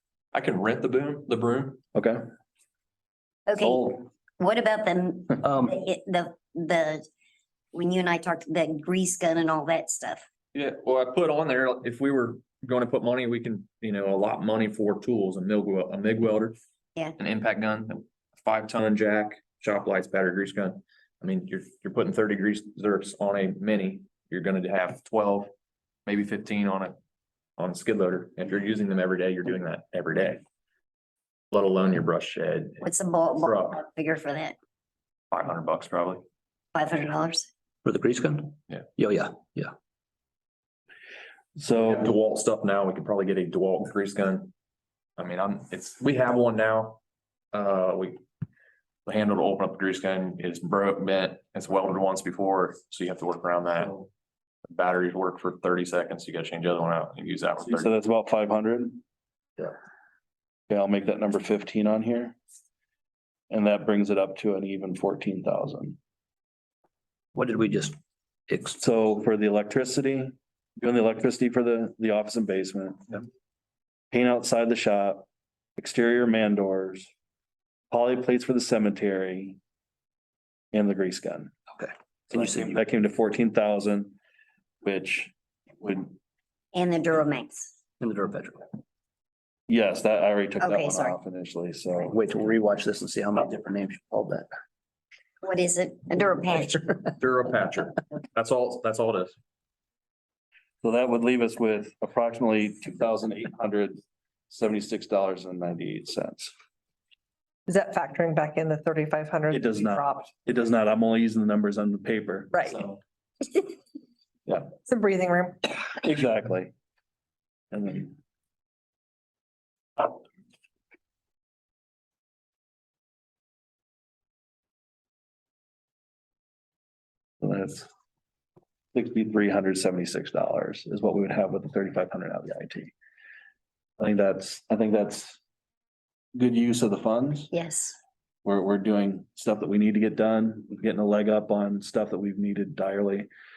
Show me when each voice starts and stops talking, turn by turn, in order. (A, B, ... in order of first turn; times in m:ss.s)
0:00.3-0:01.8 A
0:01.9-0:02.2 B
0:03.5-0:07.1 C
0:03.6-0:04.0 B
0:05.4-0:05.8 D
0:07.7-0:10.2 C
0:10.5-0:16.6 A
0:17.2-0:25.5 A
0:26.0-0:27.0 A
0:27.6-0:30.4 A
0:31.5-0:32.8 A
0:32.8-0:34.5 C
0:35.3-0:36.2 A
0:36.7-0:37.5 C
0:37.8-0:39.7 D
0:41.6-0:42.1 B
0:41.9-0:44.5 A
0:45.2-0:47.0 A
0:47.5-0:48.2 A
0:49.0-0:54.0 A
0:54.7-0:57.9 A
0:57.6-0:59.0 B
1:00.7-1:02.4 B
1:03.5-1:06.0 B
1:07.3-1:08.0 D
1:08.5-1:08.8 D
1:08.8-1:13.0 B
1:14.1-1:15.2 B
1:15.8-1:17.1 B
1:17.9-1:19.6 B
1:20.7-1:21.5 B
1:21.7-1:22.8 D
1:22.3-1:24.1 B
1:24.8-1:26.1 B
1:26.7-1:27.7 C
1:28.0-1:28.7 D
1:29.7-1:32.2 B
1:30.6-1:31.2 C
1:32.1-1:34.5 D
1:35.4-1:37.1 C
1:37.2-1:39.3 A
1:40.8-1:46.5 B
1:47.7-1:50.4 E
1:49.5-1:53.0 B
1:52.5-1:52.8 E
1:54.8-1:55.8 E
1:56.0-1:56.7 B
1:57.7-1:58.2 B
2:07.4-2:07.9 B
2:08.9-2:12.9 B
2:14.0-2:15.4 B
2:16.3-2:17.5 B
2:17.5-2:18.0 C
2:18.4-2:23.3 B